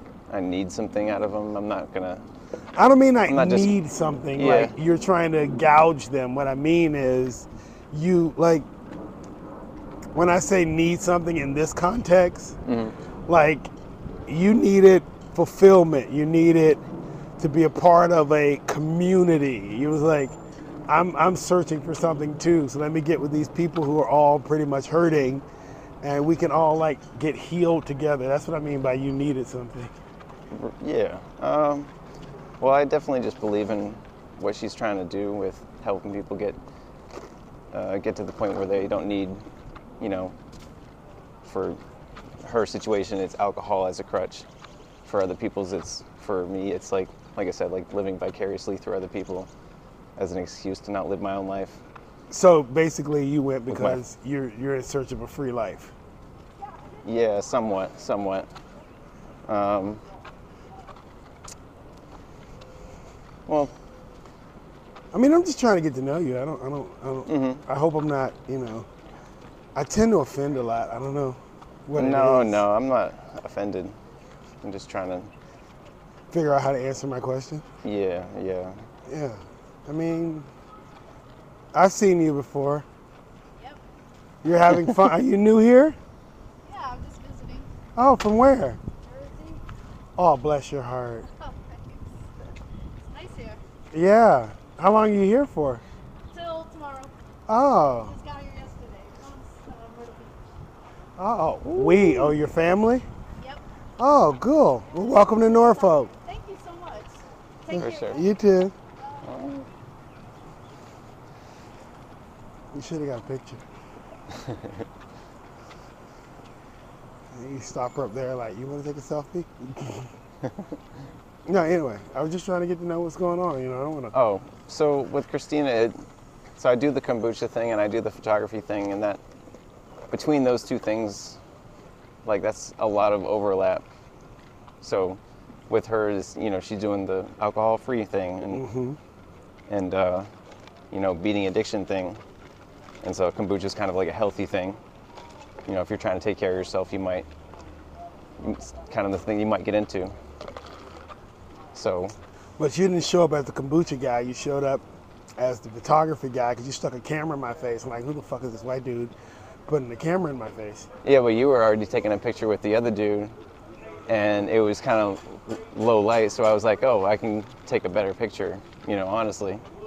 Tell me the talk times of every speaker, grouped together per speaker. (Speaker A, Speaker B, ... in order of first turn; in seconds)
Speaker A: 0.3-2.2, 3.3-3.7, 4.3-4.7, 12.7-12.9, 30.5-31.9, 32.6-36.6, 37.7-39.4, 40.0-40.4, 41.4-41.8, 42.4-44.5, 45.0-49.5, 50.2-51.8, 53.7-54.0, 57.0-58.5, 59.5-60.0, 63.5-63.7, 67.3-67.6, 72.0-74.0, 74.6-75.3, 77.8-78.8, 101.6-102.4, 107.8-108.2, 109.2-109.7, 114.3-114.8, 124.1-126.0, 126.6-129.2, 130.1-131.4, 132.2-133.8, 134.8-138.6, 139.7-140.3, 140.9-142.2, 143.0-144.8, 145.7-147.3, 148.4-150.1, 151.7-152.2, 161.0-163.3, 164.1-169.6
Speaker B: 2.8-8.7, 10.1-12.6, 13.3-13.7, 14.3-16.8, 17.4-20.4, 20.9-25.4, 26.0-29.9, 52.3-55.9, 65.1-68.9, 69.8-72.6, 76.3-77.7, 79.1-80.5, 81.7-82.9, 84.4-86.0, 88.0-88.8, 90.2-91.3, 93.9-95.8, 97.5-98.1, 101.2-103.1, 104.0-106.1, 107.7-108.7, 112.7-113.6, 117.3-120.1, 121.5-124.1, 138.5-139.0, 152.6-154.8, 155.4-159.1, 159.7-160.9
Speaker C: 86.6-87.7, 89.0-89.6, 91.3-92.0, 93.1-93.6, 96.3-97.1, 98.0-100.4, 103.4-103.6, 104.9-108.4, 109.0-109.3